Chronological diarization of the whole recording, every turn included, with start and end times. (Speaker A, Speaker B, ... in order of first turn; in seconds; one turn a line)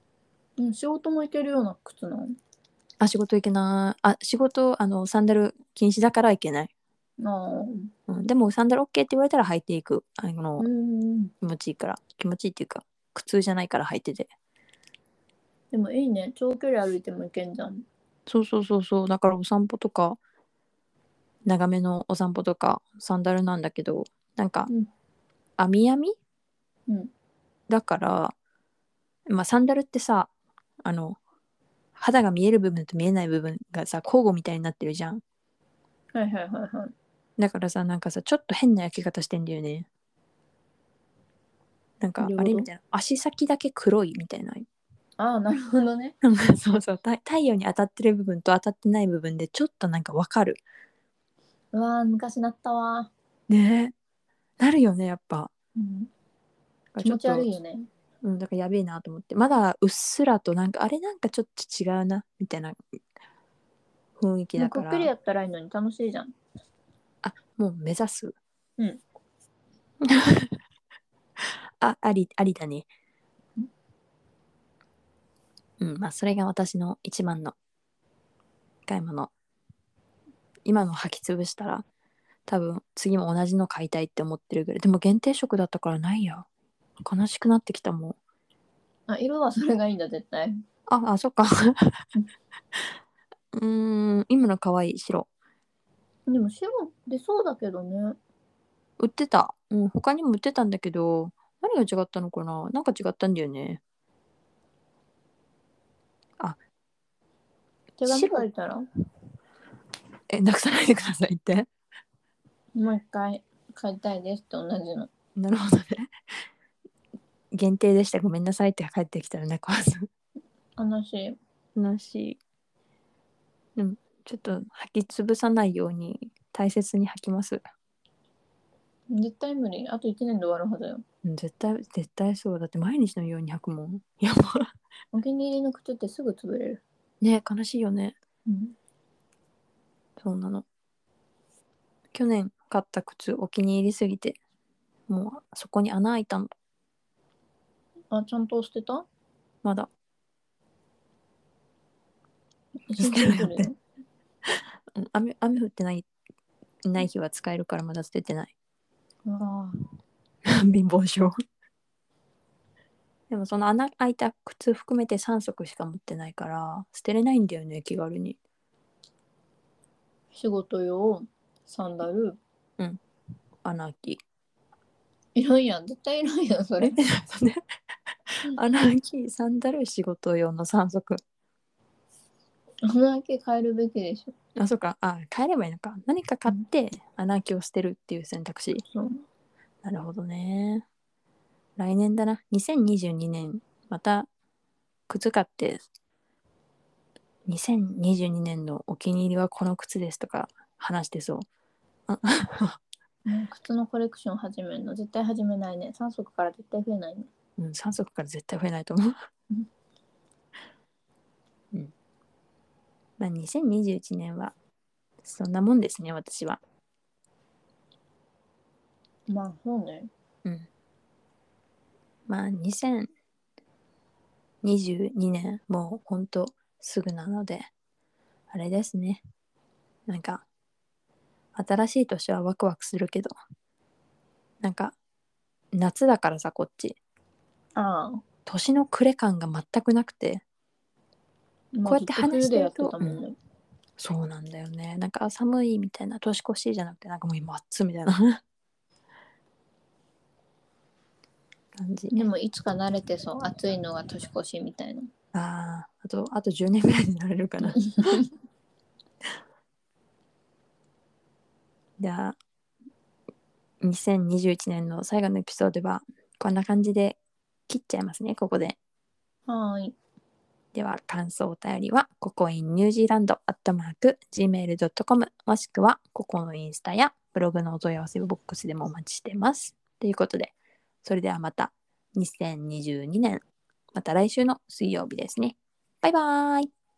Speaker A: 0.6-2.4
Speaker B: 3.0-6.7
Speaker A: 7.2-7.9
Speaker B: 8.1-10.7
Speaker A: 10.6-11.3
Speaker B: 11.4-14.3
Speaker A: 15.7-17.9
Speaker B: 18.3-20.2
Speaker B: 21.5-24.7
Speaker B: 25.6-26.2
Speaker B: 27.7-28.3
Speaker B: 29.3-30.3
Speaker B: 30.8-31.2
Speaker B: 32.0-35.2
Speaker A: 36.1-36.9
Speaker B: 37.4-39.9
Speaker B: 42.0-44.7
Speaker A: 42.2-42.7
Speaker A: 45.2-46.1
Speaker B: 46.2-50.6
Speaker A: 51.7-53.1
Speaker B: 53.5-53.9
Speaker B: 54.6-55.5
Speaker A: 55.8-56.1
Speaker B: 57.0-57.5
Speaker A: 57.0-57.9
Speaker B: 58.2-62.8
Speaker B: 64.2-65.1
Speaker A: 64.6-66.3
Speaker B: 67.2-68.4
Speaker B: 70.0-70.5
Speaker B: 71.8-72.9
Speaker B: 75.8-77.6
Speaker B: 78.9-79.3
Speaker B: 80.7-81.9
Speaker B: 82.5-86.5
Speaker B: 87.0-88.2
Speaker A: 89.1-90.6
Speaker B: 90.9-92.0
Speaker B: 93.5-95.3
Speaker A: 96.3-98.2
Speaker B: 99.0-103.8
Speaker A: 108.0-108.8
Speaker B: 108.1-108.5
Speaker B: 110.3-111.7
Speaker A: 112.8-115.1
Speaker B: 115.4-116.1
Speaker B: 117.5-120.1
Speaker A: 120.8-121.4
Speaker B: 121.8-122.4
Speaker B: 123.8-127.6
Speaker A: 129.1-131.0
Speaker B: 131.2-134.7
Speaker A: 135.1-136.8
Speaker B: 137.2-138.2
Speaker A: 138.5-138.8
Speaker B: 140.2-140.7
Speaker B: 142.1-144.4
Speaker B: 145.1-146.5
Speaker A: 148.1-149.1
Speaker B: 149.6-149.9
Speaker A: 152.9-153.8
Speaker B: 153.0-153.7
Speaker B: 154.9-156.1
Speaker B: 156.8-158.6
Speaker A: 159.2-159.8
Speaker B: 160.5-161.3
Speaker B: 163.3-168.4
Speaker A: 170.3-172.4
Speaker B: 173.6-174.2
Speaker A: 175.3-177.0
Speaker B: 176.8-177.6
Speaker B: 178.4-181.2
Speaker A: 182.8-184.3
Speaker B: 184.6-188.8
Speaker A: 188.9-189.2
Speaker B: 189.8-190.9
Speaker B: 191.8-194.3
Speaker B: 195.1-195.9
Speaker B: 197.5-201.5
Speaker B: 202.1-202.8
Speaker A: 203.3-207.3
Speaker B: 207.6-209.2
Speaker B: 213.2-214.6
Speaker B: 215.2-216.6
Speaker A: 219.3-220.1
Speaker B: 222.3-223.1
Speaker B: 224.6-227.7
Speaker B: 228.5-229.2
Speaker B: 230.1-230.4
Speaker B: 231.6-233.3
Speaker B: 234.6-235.0
Speaker B: 235.7-237.0
Speaker A: 237.8-238.2
Speaker B: 238.5-240.4
Speaker A: 241.7-243.4
Speaker B: 241.8-243.2
Speaker B: 244.0-248.4
Speaker B: 251.8-252.3
Speaker A: 252.1-255.1
Speaker B: 255.3-258.2
Speaker A: 257.8-258.3
Speaker B: 262.0-262.4
Speaker B: 263.8-268.8
Speaker A: 269.5-270.0
Speaker B: 270.7-286.7